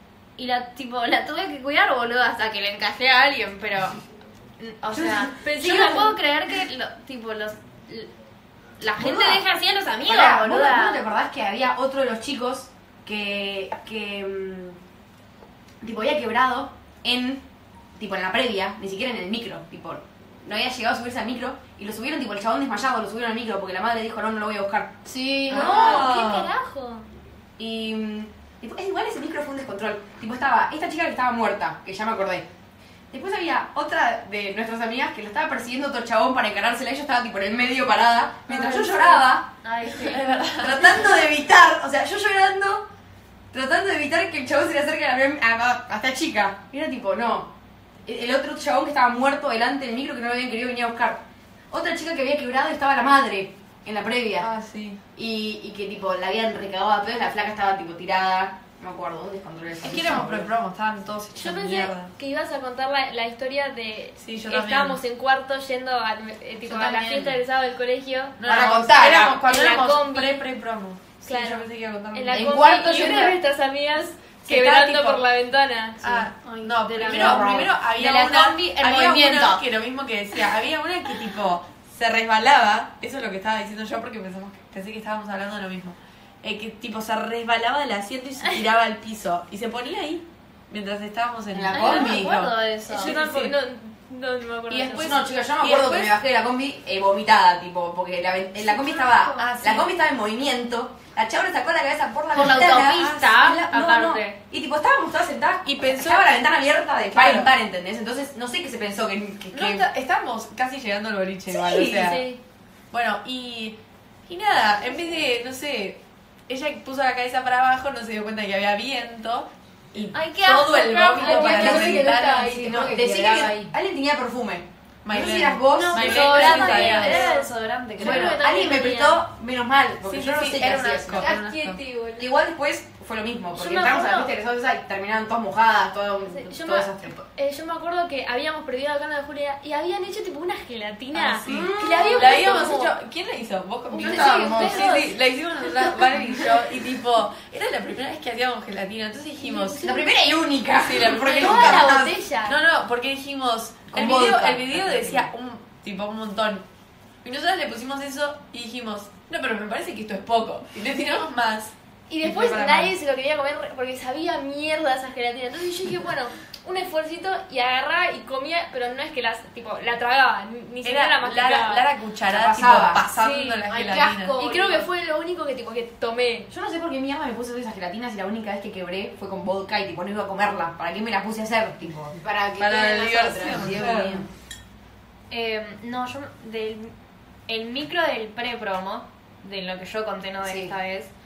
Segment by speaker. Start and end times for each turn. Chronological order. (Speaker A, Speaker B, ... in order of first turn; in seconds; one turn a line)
Speaker A: 0.4-4.0
Speaker A: 4.6-8.1
Speaker B: 4.9-5.8
Speaker C: 5.4-6.2
Speaker A: 8.8-11.1
Speaker B: 8.9-9.5
Speaker B: 10.0-14.8
Speaker B: 15.8-17.4
Speaker B: 18.0-25.0
Speaker D: 25.0-26.1
Speaker B: 25.5-26.5
Speaker E: 25.5-26.5
Speaker C: 25.6-27.1
Speaker B: 27.6-32.5
Speaker B: 33.1-39.5
Speaker A: 38.6-40.7
Speaker E: 40.0-40.9
Speaker B: 40.6-42.9
Speaker B: 43.5-47.5
Speaker B: 48.0-54.5
Speaker E: 54.4-55.0
Speaker B: 55.2-60.5
Speaker E: 59.8-62.1
Speaker C: 61.4-68.5
Speaker E: 64.2-65.0
Speaker D: 66.6-67.4
Speaker E: 68.4-72.8
Speaker B: 68.5-69.4
Speaker C: 69.3-70.4
Speaker C: 71.2-76.3
Speaker B: 72.3-73.4
Speaker E: 74.4-75.2
Speaker E: 76.0-93.6
Speaker C: 77.0-77.6
Speaker B: 77.1-77.7
Speaker A: 77.1-79.6
Speaker B: 91.5-92.4
Speaker A: 91.7-93.1
Speaker C: 92.9-95.3
Speaker B: 94.7-109.9
Speaker E: 95.0-96.1
Speaker C: 98.8-99.4
Speaker E: 99.4-99.9
Speaker A: 102.3-104.4
Speaker E: 105.6-106.5
Speaker E: 107.1-107.5
Speaker E: 109.5-112.3
Speaker B: 111.5-112.2
Speaker C: 112.0-112.4
Speaker E: 112.9-123.0
Speaker C: 120.1-122.8
Speaker D: 121.2-123.7
Speaker B: 121.3-122.0
Speaker B: 122.7-126.6
Speaker E: 125.0-127.3
Speaker A: 125.7-128.4
Speaker C: 125.9-129.2
Speaker B: 128.0-131.3
Speaker E: 130.0-131.8
Speaker C: 131.1-132.3
Speaker B: 132.2-137.2
Speaker C: 133.6-134.3
Speaker C: 136.3-142.9
Speaker E: 141.1-149.9
Speaker B: 141.5-142.5
Speaker C: 143.9-145.1
Speaker B: 144.0-145.0
Speaker C: 149.4-150.1
Speaker B: 149.8-152.2
Speaker E: 150.8-156.7
Speaker C: 151.3-152.6
Speaker B: 153.9-155.3
Speaker E: 157.2-162.9
Speaker C: 162.1-171.9
Speaker E: 170.8-174.4
Speaker B: 172.3-173.1
Speaker C: 173.1-173.7
Speaker D: 173.7-174.9
Speaker C: 174.3-176.5
Speaker B: 176.5-182.2
Speaker D: 182.1-183.9
Speaker E: 182.6-184.3
Speaker B: 183.4-184.3
Speaker A: 185.3-186.9
Speaker A: 187.5-191.1
Speaker B: 190.4-190.7